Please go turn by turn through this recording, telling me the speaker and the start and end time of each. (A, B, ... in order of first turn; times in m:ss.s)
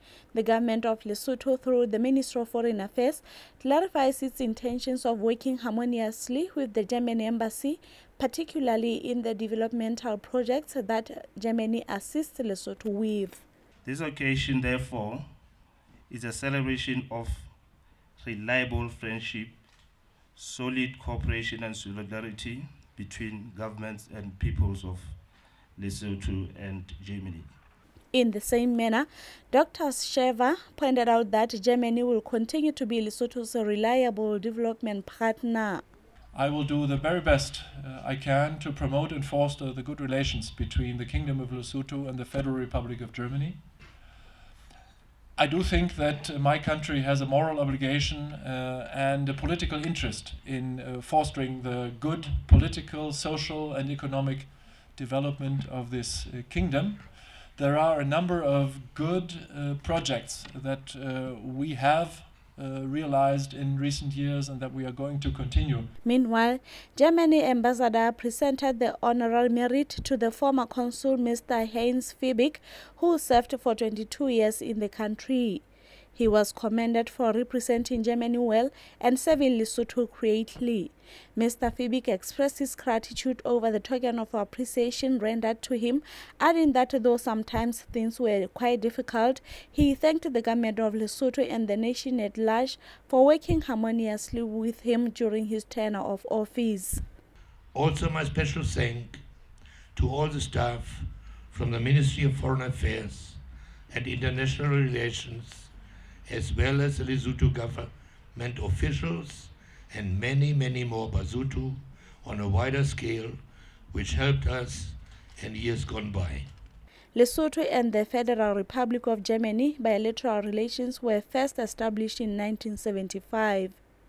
0:00.3-0:13.4 A
0:13.8-0:15.4 B
0:16.1-0:17.6 B
0:18.2-0:19.6 B
0:20.3-0:27.6 B
0:28.1-0:35.8 A
0:36.3-0:43.7 C
0:45.4-1:05.9 C
1:06.0-1:15.6 A
1:16.1-1:37.0 A
1:37.7-1:39.2 D
1:39.9-1:45.7 D
1:46.3-1:53.4 D
1:53.9-1:56.5 D
1:57.1-2:03.8 A